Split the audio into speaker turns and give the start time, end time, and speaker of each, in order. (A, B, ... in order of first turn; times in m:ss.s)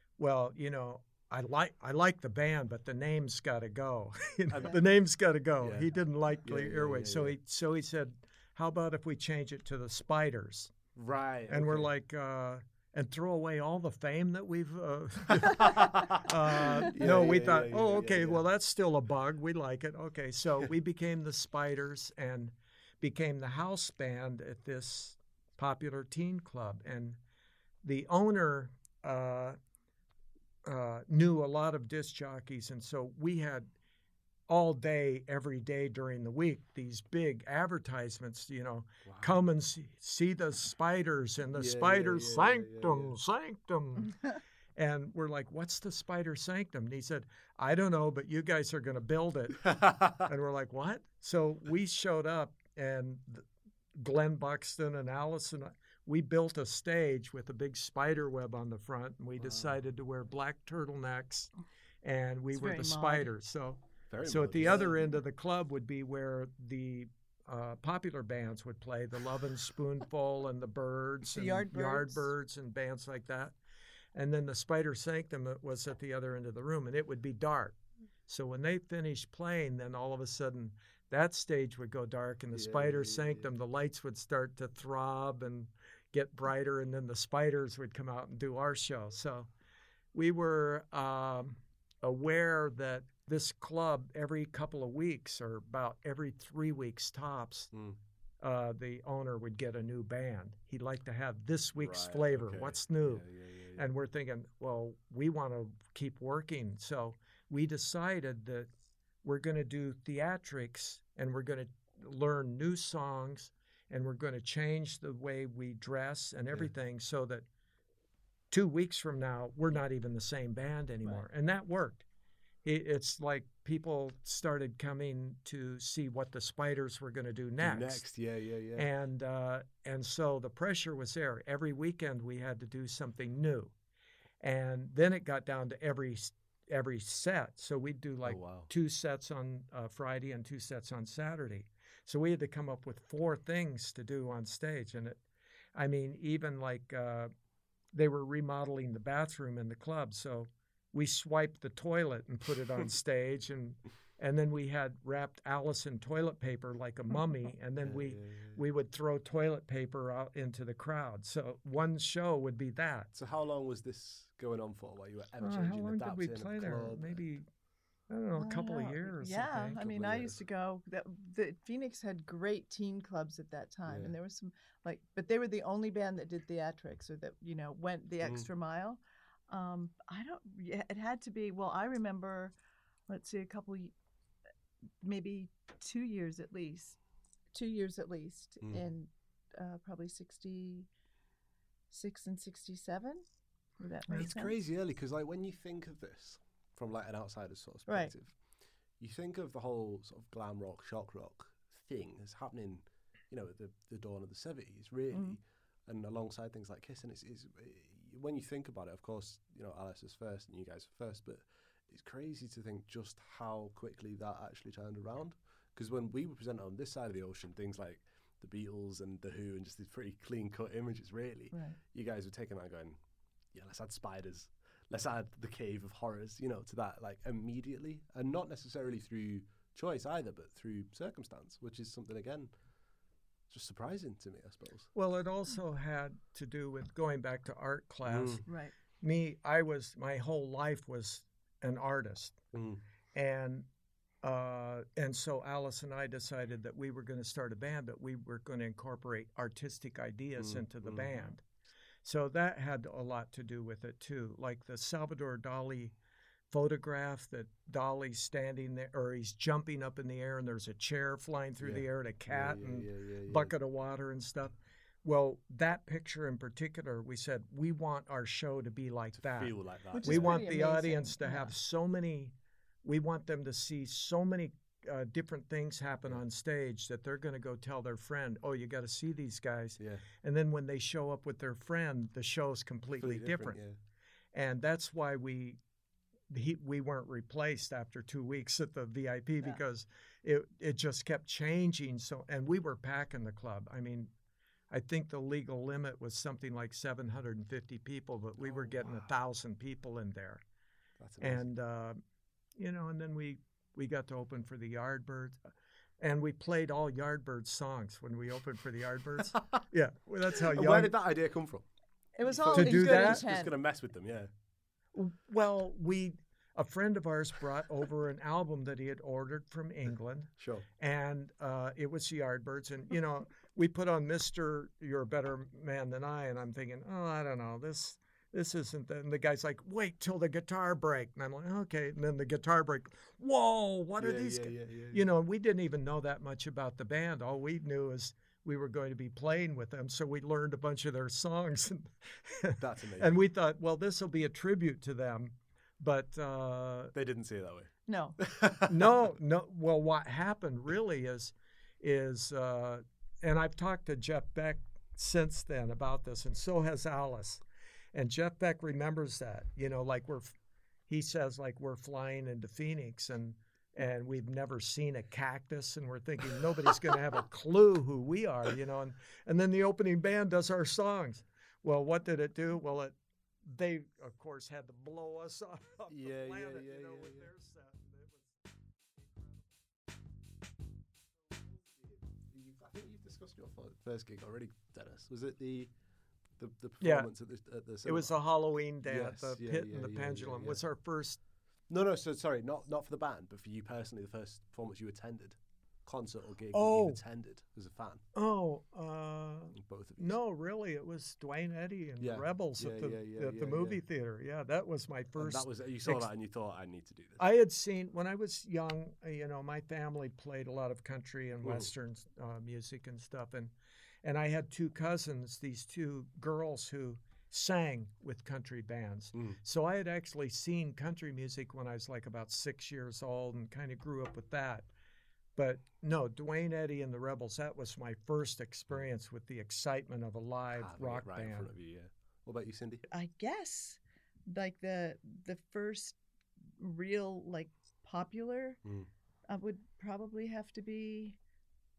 0:00.2-0:10.7 A
0:04.5-0:04.8 B
0:05.6-0:05.9 B
0:06.4-0:07.3 B
0:11.0-0:11.9 B
0:11.5-0:27.2 A
0:15.3-0:18.4 B
0:27.8-0:29.6 A
0:30.6-0:33.7 A
0:34.5-0:44.2 A
0:39.0-0:39.4 B
0:41.5-0:43.1 B
0:44.8-1:01.5 A
0:49.6-0:50.3 B
0:59.4-0:59.8 B
1:02.0-1:13.6 A
1:02.5-1:03.3 C
1:04.1-1:05.0 B
1:11.3-1:12.3 C
1:14.2-1:29.5 A
1:22.5-1:23.5 B
1:30.1-1:37.7 A
1:37.7-1:38.0 B
1:38.4-1:43.2 A
1:41.8-1:43.9 B
1:43.8-1:48.7 A
1:49.2-1:57.4 A
1:58.5-2:02.0 A
2:02.6-2:08.0 A
2:07.6-2:08.9 B
2:08.8-2:13.7 A
2:14.4-2:25.2 A
2:18.2-2:18.7 B
2:25.8-2:27.3 A
2:27.9-2:43.1 A
2:37.8-2:38.6 B
2:43.1-2:47.2 B
2:45.4-2:47.5 A
2:48.1-2:49.8 A
2:48.4-3:02.6 C
2:49.8-2:50.4 B
2:53.9-2:54.1 B
3:03.1-3:03.9 C
3:05.0-3:07.0 C
3:07.5-3:10.9 C
3:11.9-3:13.2 C
3:13.8-3:14.5 C
3:14.1-3:18.4 B
3:17.9-3:18.1 C
3:19.0-3:43.0 B
3:25.1-3:25.4 C
3:41.5-3:41.8 C
3:43.5-3:52.5 B
3:53.5-3:54.9 B
3:54.9-3:58.5 A
3:58.1-3:58.4 B
3:58.5-3:58.7 C
3:59.0-4:02.4 A
4:02.5-4:02.8 B
4:03.1-4:03.7 A
4:04.2-4:11.4 A
4:10.4-4:11.2 B
4:12.0-4:16.0 A
4:16.5-4:43.6 A
4:21.6-4:23.6 B
4:29.2-4:30.4 B
4:29.9-4:31.5 C
4:39.8-4:40.1 B
4:43.0-4:43.8 B
4:44.3-4:45.6 A
4:46.3-4:54.1 A
4:54.7-5:00.4 A
4:58.4-4:59.1 B
5:01.0-5:01.4 B
5:01.2-5:02.0 A
5:02.6-5:05.4 A
5:06.0-5:10.9 A
5:09.3-5:09.6 B
5:10.4-5:11.7 B
5:12.2-5:13.5 C
5:12.2-5:14.3 B
5:12.5-5:13.2 A
5:14.9-5:46.9 A
5:20.4-5:20.7 B
5:34.0-5:35.0 B
5:42.6-5:43.1 B
5:46.9-5:48.9 B
5:47.9-5:48.2 C
5:48.7-5:57.4 A
5:57.9-6:00.4 A
6:00.9-6:18.4 A
6:15.9-6:17.3 B
6:19.0-6:19.5 A
6:21.3-6:25.7 B
6:26.4-6:28.2 B
6:26.8-6:27.1 A
6:27.8-6:31.2 A
6:28.8-6:30.6 B
6:31.7-6:38.0 B
6:36.5-6:37.0 A
6:38.2-6:46.1 A
6:39.6-6:40.2 B
6:42.0-6:43.8 B
6:45.2-6:47.2 B
6:47.2-6:53.5 A
6:51.4-6:51.7 B
6:54.0-7:04.7 A
6:59.2-6:59.4 B
7:05.4-7:11.5 A
7:10.5-7:12.8 B
7:12.9-7:16.0 C
7:16.6-7:18.6 C
7:18.6-7:18.9 B
7:19.3-7:21.2 C